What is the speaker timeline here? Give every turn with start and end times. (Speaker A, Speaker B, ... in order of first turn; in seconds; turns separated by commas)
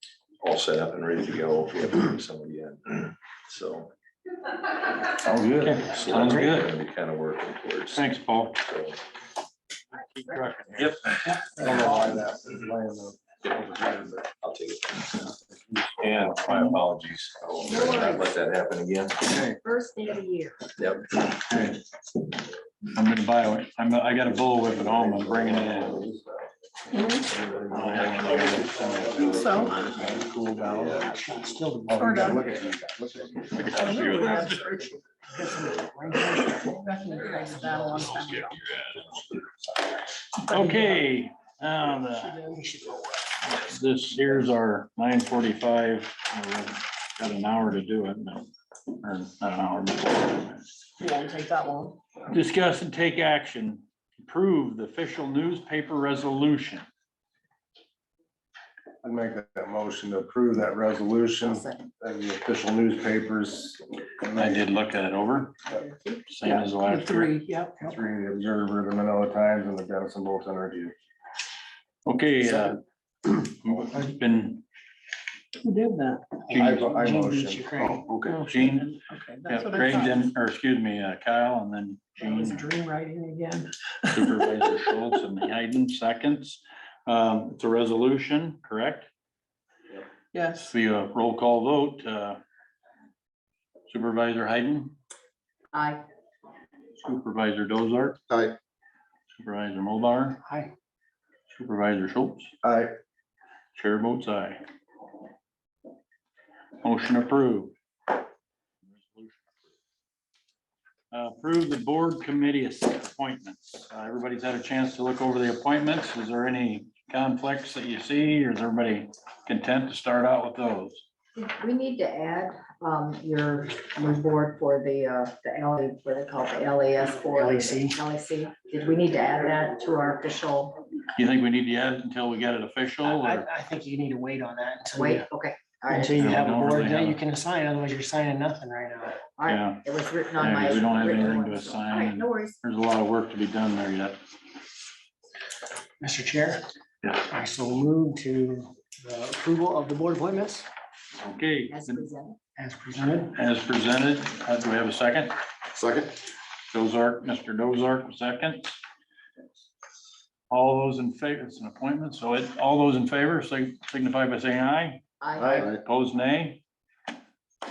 Speaker A: 0.4-3.9, Speaker B: 5.3-6.7, Speaker A: 5.8-9.0, Speaker B: 7.9-8.6, Speaker B: 9.9-11.1, Speaker C: 11.6-14.3, Speaker D: 11.6-12.0, Speaker A: 14.4-15.3, Speaker C: 15.5-16.0, Speaker A: 16.0-19.5, Speaker B: 16.5-16.8, Speaker E: 17.6-18.3, Speaker E: 19.5-20.6, Speaker A: 20.8-21.2, Speaker B: 21.5-21.8, Speaker B: 22.9-26.0, Speaker C: 24.7-26.2, Speaker D: 26.9-27.3, Speaker C: 27.4-31.1, Speaker B: 27.7-29.7, Speaker D: 29.1-29.9, Speaker A: 29.8-30.1, Speaker A: 30.7-31.1, Speaker F: 31.0-32.4, Speaker C: 31.9-33.7, Speaker D: 31.9-32.6, Speaker B: 33.5-34.9, Speaker D: 33.7-35.0, Speaker F: 35.3-36.8, Speaker D: 36.1-38.7, Speaker E: 37.2-38.1, Speaker F: 37.4-38.2, Speaker D: 40.4-41.1, Speaker B: 40.5-42.4, Speaker F: 42.2-43.2, Speaker D: 42.3-42.6, Speaker B: 43.5-48.5, Speaker B: 49.0-50.7, Speaker D: 51.0-52.0, Speaker B: 52.3-56.9, Speaker C: 59.0-64.6, Speaker E: 61.4-61.9, Speaker B: 64.3-65.6, Speaker E: 65.7-66.2, Speaker B: 66.3-67.3, Speaker D: 66.4-67.9, Speaker C: 67.8-70.9, Speaker B: 72.0-74.6, Speaker D: 75.6-77.0, Speaker B: 76.5-76.9, Speaker C: 76.5-78.4, Speaker F: 76.5-78.5, Speaker B: 78.4-79.0, Speaker D: 78.5-80.2, Speaker B: 79.5-82.7, Speaker D: 82.2-84.7, Speaker B: 84.1-89.1, Speaker D: 90.3-90.7, Speaker B: 90.7-92.4, Speaker B: 93.9-94.9, Speaker E: 95.7-96.0, Speaker B: 97.0-98.2, Speaker C: 98.3-98.5, Speaker B: 99.4-100.4, Speaker F: 100.4-100.7, Speaker B: 101.5-102.5, Speaker C: 102.6-102.9, Speaker B: 103.7-104.6, Speaker B: 106.8-107.7, Speaker B: 108.8-109.4, Speaker B: 111.1-121.0, Speaker E: 121.3-130.8, Speaker F: 127.3-128.0, Speaker B: 131.1-133.5, Speaker F: 133.0-135.3, Speaker E: 134.9-136.3, Speaker F: 135.9-139.2, Speaker B: 136.2-137.2, Speaker E: 139.4-142.6, Speaker B: 139.4-144.2, Speaker F: 140.6-141.3, Speaker F: 146.0-146.6, Speaker F: 147.2-150.7, Speaker B: 151.2-152.1, Speaker E: 151.7-152.4, Speaker F: 152.6-153.3, Speaker B: 153.3-155.4, Speaker C: 155.7-156.2, Speaker B: 156.7-158.8, Speaker B: 160.5-165.0, Speaker E: 165.2-165.8, Speaker C: 165.4-165.8, Speaker B: 165.8-166.6